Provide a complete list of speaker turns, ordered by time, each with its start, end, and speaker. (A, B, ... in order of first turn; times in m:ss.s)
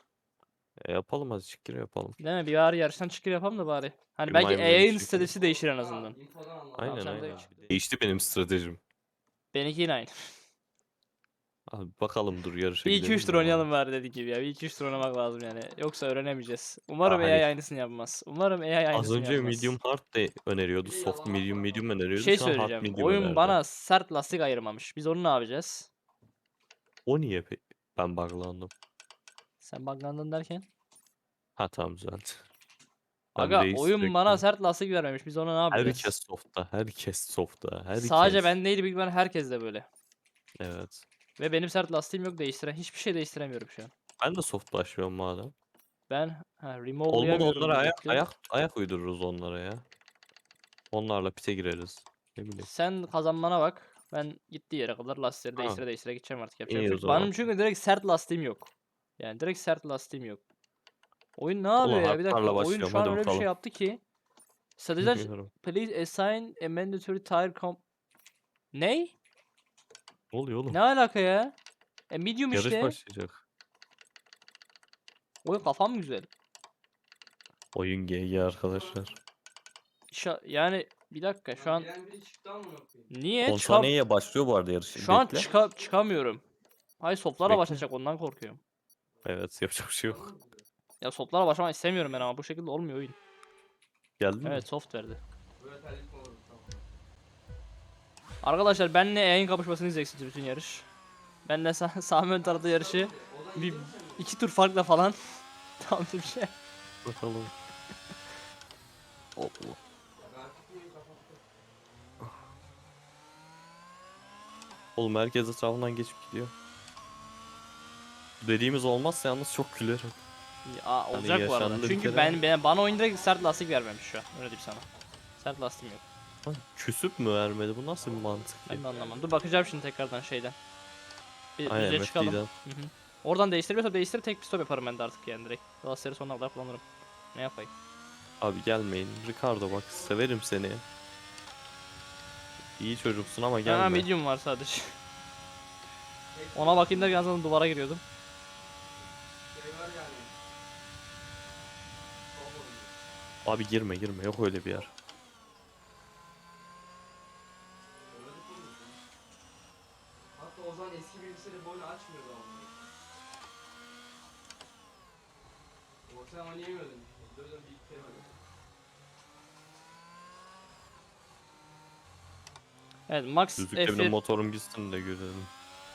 0:00.8-0:02.2 A
0:02.2-0:06.2 B
0:04.3-0:05.3 A
0:05.4-0:07.8 C
0:06.8-0:08.8 A
0:06.8-0:07.7 B
0:09.5-0:10.4 B
0:11.7-0:13.7 A
0:12.8-0:19.7 B
0:17.0-0:17.5 A
0:18.9-0:23.6 A
0:20.8-0:21.9 C
0:22.2-0:25.9 B
0:27.1-0:28.7 A
0:29.6-0:30.7 B
0:31.6-0:32.4 A
0:33.4-0:36.1 B
0:33.4-0:34.4 A
0:35.7-0:38.6 A
0:38.0-0:39.9 B
0:40.6-0:41.0 A
0:41.4-0:43.9 B
0:44.2-0:45.5 A
0:46.1-0:48.2 B
0:47.1-0:49.8 A
0:50.9-0:52.7 A
0:52.6-1:00.4 B
0:55.6-0:55.8 A
0:56.7-0:57.3 A
1:01.4-1:04.0 B
1:01.8-1:03.5 A
1:04.8-1:07.8 B
1:05.0-1:05.5 A
1:08.7-1:09.1 B
1:10.3-1:10.8 A
1:10.7-1:11.5 B
1:12.1-1:13.0 B
1:12.5-1:13.4 A
1:15.4-1:16.3 B
1:17.7-1:19.2 A
1:18.7-1:19.0 C
1:20.1-1:21.9 B
1:21.6-1:23.1 C
1:23.1-1:23.9 B
1:23.4-1:25.5 A
1:25.0-1:26.4 B
1:25.3-1:25.9 C
1:27.0-1:28.6 B
1:27.4-1:27.8 A
1:29.2-1:30.3 A
1:30.0-1:30.6 C
1:31.0-1:33.2 B
1:34.2-1:34.6 A
1:34.4-1:35.2 B
1:35.6-1:36.9 C
1:38.4-1:40.9 B
1:41.5-1:46.5 B
1:42.4-1:44.3 C
1:47.0-1:47.5 A
1:49.4-1:49.8 A
1:50.2-1:51.4 C
1:55.0-1:56.5 A
1:58.4-2:00.2 A
2:00.6-2:04.8 B
2:01.1-2:02.4 A
2:01.9-2:03.7 C
2:05.4-2:06.0 B
2:06.4-2:08.8 A
2:08.0-2:09.9 C
2:08.7-2:10.6 B
2:11.6-2:16.8 B
2:11.7-2:12.5 A
2:17.3-2:17.7 B
2:18.4-2:20.8 A
2:19.7-2:20.2 C
2:22.8-2:24.1 A
2:23.6-2:25.0 B
2:26.3-2:27.2 C
2:26.6-2:28.0 B
2:29.5-2:30.3 C
2:32.3-2:32.9 C
2:33.4-2:34.9 A
2:38.1-2:39.0 C
2:40.3-2:42.8 C
2:46.1-2:48.3 C
2:53.1-2:54.2 B
2:53.6-2:55.5 A